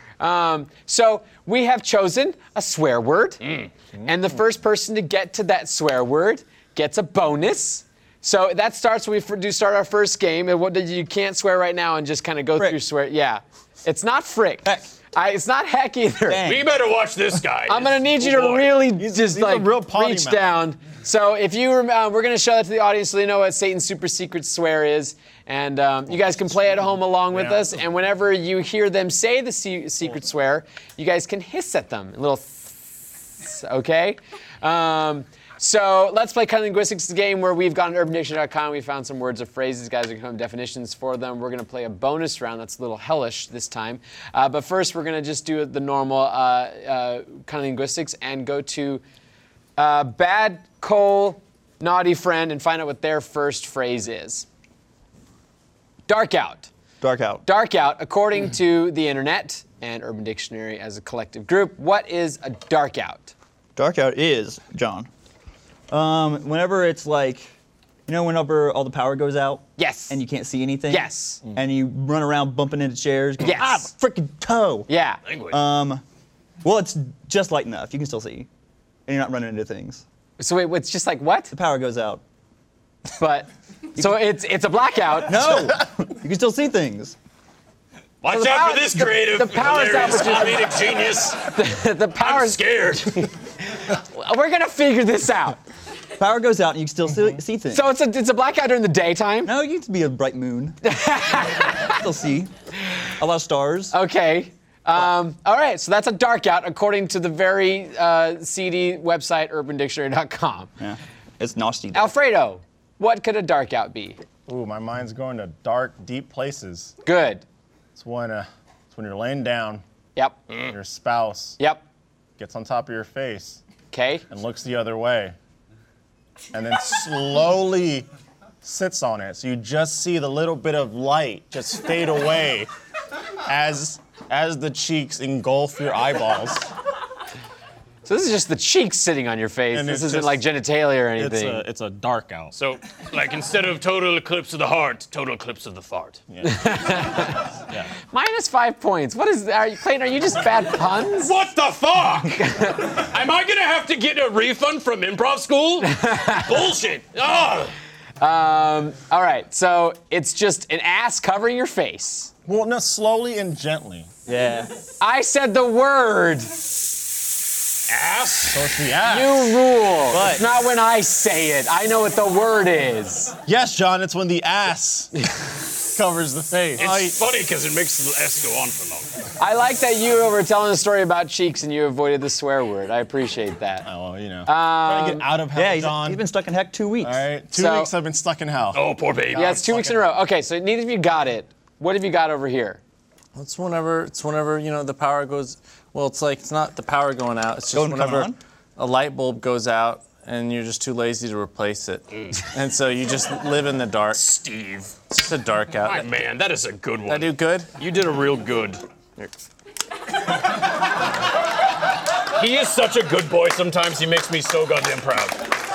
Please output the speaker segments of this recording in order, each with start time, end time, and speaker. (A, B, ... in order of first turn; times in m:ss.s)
0:00.2-0:03.4 A
0:03.4-0:03.7 B
0:04.1-0:16.4 A
0:16.2-0:16.7 C
0:16.4-0:18.8 B
0:17.7-0:49.0 A
0:19.0-0:20.5 D
0:27.3-0:27.8 D
0:49.8-0:54.5 A
0:56.1-0:56.7 A
0:57.0-0:57.4 C
0:57.5-1:03.3 A
1:03.8-1:05.1 C
1:05.9-1:07.5 C
1:08.1-1:14.9 C
1:09.8-1:10.2 A
1:10.9-1:11.4 A
1:13.4-1:13.9 A
1:14.9-1:15.2 A
1:15.2-1:15.6 B
1:15.5-1:16.0 C
1:16.6-1:18.5 C
1:19.1-1:20.0 C
1:20.4-1:21.5 A
1:21.5-1:22.2 C
1:23.2-1:25.6 A
1:25.2-1:27.2 C
1:28.2-1:31.4 B
1:28.3-1:30.7 A
1:31.5-1:35.6 A
1:32.2-1:33.3 B
1:36.2-1:37.8 C
1:37.7-1:39.5 A
1:39.4-1:40.8 C
1:40.8-1:42.0 A
1:41.8-1:42.5 C
1:43.2-1:43.9 C
1:43.9-1:50.7 A
1:50.8-1:52.1 C
1:51.9-1:54.2 A
1:54.5-1:56.9 D
1:57.0-1:57.4 A
1:58.0-1:59.8 D
2:00.5-2:00.8 B
2:00.7-2:01.6 D
2:02.4-2:03.6 D
2:03.9-2:04.2 A
2:04.3-2:05.4 D
2:06.5-2:08.1 D
2:08.6-2:12.7 D
2:13.5-2:16.6 D
2:18.1-2:21.6 A
2:19.7-2:20.4 D
2:21.2-2:22.5 D
2:22.5-2:26.2 B
2:26.3-2:27.9 D
2:26.5-2:27.4 A
2:28.1-2:31.3 A
2:31.2-2:37.7 B
2:32.4-2:32.8 A
2:35.9-2:36.5 A
2:38.2-2:42.3 A
2:42.5-2:44.1 D
2:44.2-2:44.7 C
2:45.0-2:46.5 A
2:47.9-2:48.8 B
2:48.5-2:49.6 D
2:49.1-2:53.4 A
2:50.1-2:50.4 C
2:53.5-2:55.1 D
2:55.9-2:57.1 D
2:56.8-2:59.1 B
2:56.8-2:57.1 E
2:59.4-3:03.9 A
3:03.8-3:06.2 D
3:04.5-3:05.3 A
3:05.5-3:07.2 C
3:07.0-3:10.1 D
3:07.5-3:07.9 A
3:08.7-3:09.6 B
3:09.3-3:12.8 A
3:13.4-3:24.2 E
3:17.7-3:18.4 C
3:22.1-3:22.5 B
3:24.1-3:25.0 B
3:25.1-3:26.1 E
3:25.8-3:29.2 B
3:27.1-3:27.7 E
3:32.4-3:35.4 B